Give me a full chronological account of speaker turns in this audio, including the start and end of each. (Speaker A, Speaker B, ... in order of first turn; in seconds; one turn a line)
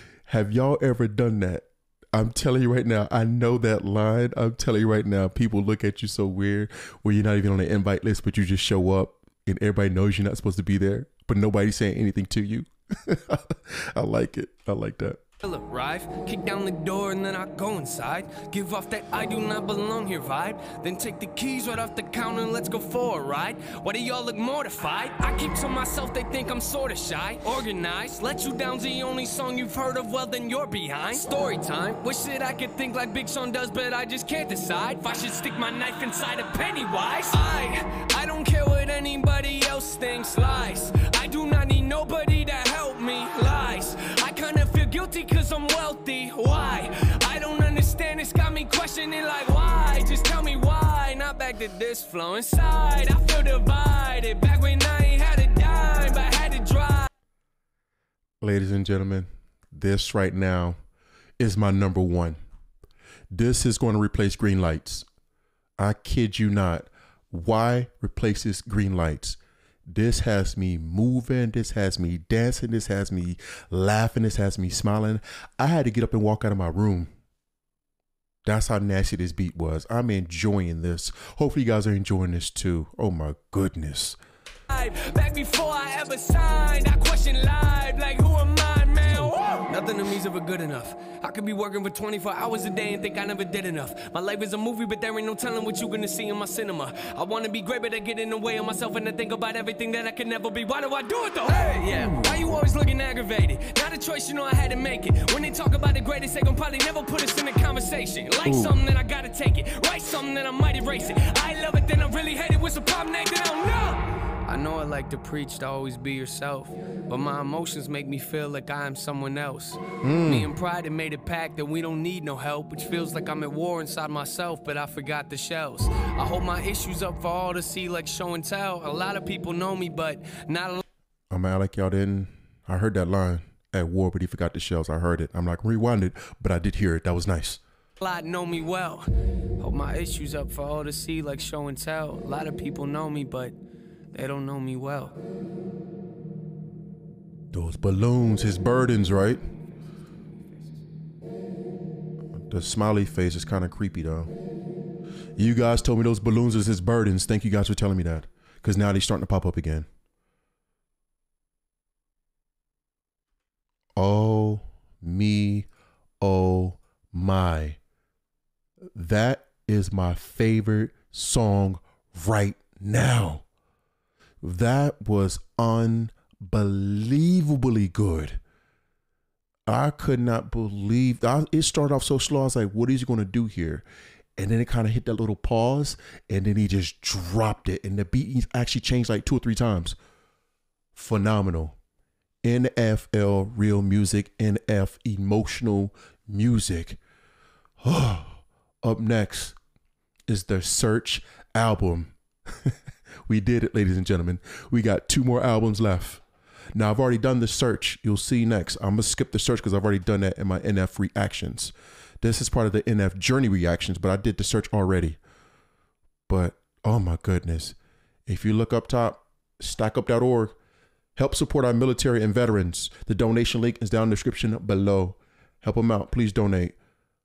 Speaker A: 0.3-15.2
Speaker B: 15.4-57.1
Speaker A: 58.4-60.8
Speaker A: 61.4-62.4
Speaker A: 63.3-65.1
Speaker A: 65.8-77.1
Speaker A: 78.5-84.2
Speaker B: 84.7-130.8
Speaker A: 101.9-102.4
Speaker A: 108.4-108.8
Speaker A: 120.0-120.5
Speaker A: 131.3-137.6
Speaker B: 138.0-139.1
Speaker B: 139.6-143.6
Speaker B: 144.1-145.2
Speaker A: 147.5-149.4
Speaker B: 150.3-150.8
Speaker A: 152.4-154.3
Speaker A: 155.4-159.9
Speaker A: 164.0-165.7
Speaker A: 166.2-167.8
Speaker A: 168.9-173.4
Speaker A: 174.4-178.4
Speaker A: 179.7-183.8
Speaker A: 184.4-190.0
Speaker A: 190.9-191.8
Speaker A: 192.4-197.0
Speaker A: 197.8-199.6
Speaker A: 200.3-202.8
Speaker A: 203.3-206.2
Speaker A: 206.8-215.2
Speaker A: 216.3-217.8
Speaker A: 218.3-220.6
Speaker A: 221.2-226.8